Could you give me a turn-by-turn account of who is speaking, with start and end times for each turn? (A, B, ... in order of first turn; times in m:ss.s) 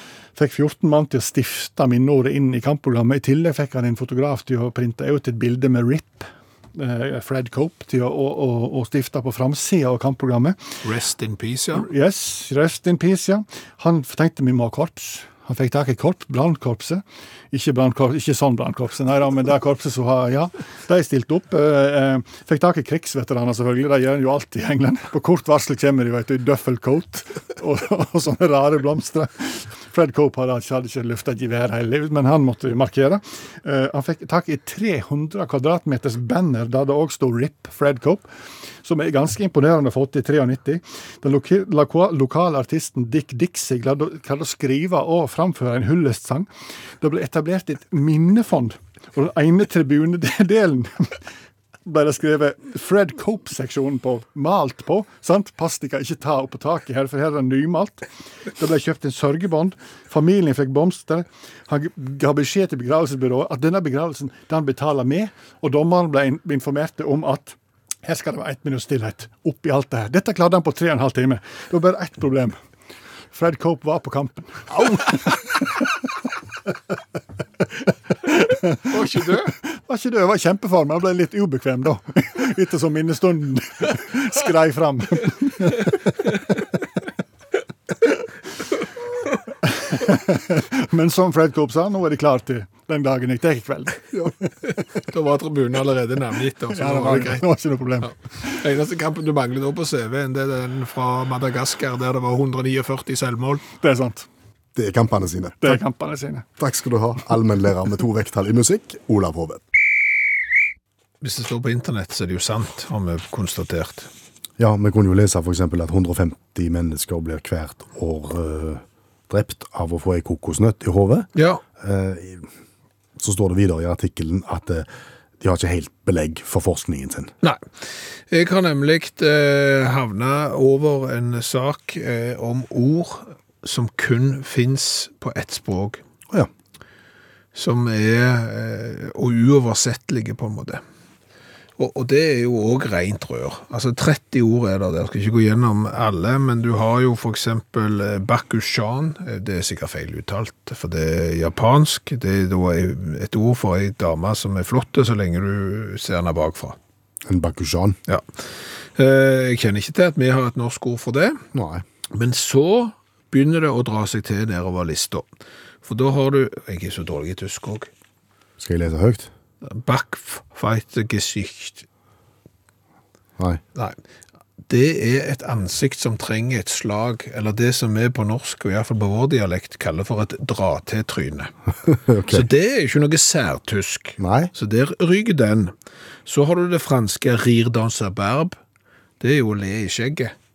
0:00.4-0:10.6 A
0:10.8-0:11.9 B
0:11.8-0:38.3 A
0:38.8-0:46.5 A
0:47.0-0:51.2 A
0:51.8-0:58.1 A
0:58.6-1:12.6 A
1:13.3-1:15.9 A
1:18.2-1:19.0 A
1:18.9-1:19.5 B
1:19.9-1:26.0 A
1:29.6-1:34.1 A
1:35.0-1:37.4 B
1:36.7-1:38.6 A
1:38.0-1:43.7 B
1:43.8-1:44.3 A
1:44.8-1:45.8 C
1:45.6-1:46.4 A
1:46.6-1:49.6 C
1:51.2-1:54.1 B
1:54.6-2:02.5 C
2:01.4-2:01.6 B
2:03.2-2:04.9 C
2:05.4-2:07.3 C
2:08.3-2:16.0 B
2:17.6-2:20.8 B
2:21.8-2:36.8 B
2:37.3-2:38.0 C
2:38.1-2:41.4 B
2:41.5-2:41.8 C
2:42.1-2:45.3 B
2:45.8-2:47.9 B
2:48.6-2:49.3 C
2:49.6-2:51.9 B
2:54.7-3:01.5 B
3:01.9-3:02.5 C
3:02.3-3:05.7 B
3:04.2-3:04.5 C
3:06.3-3:08.6 B
3:09.2-3:10.3 B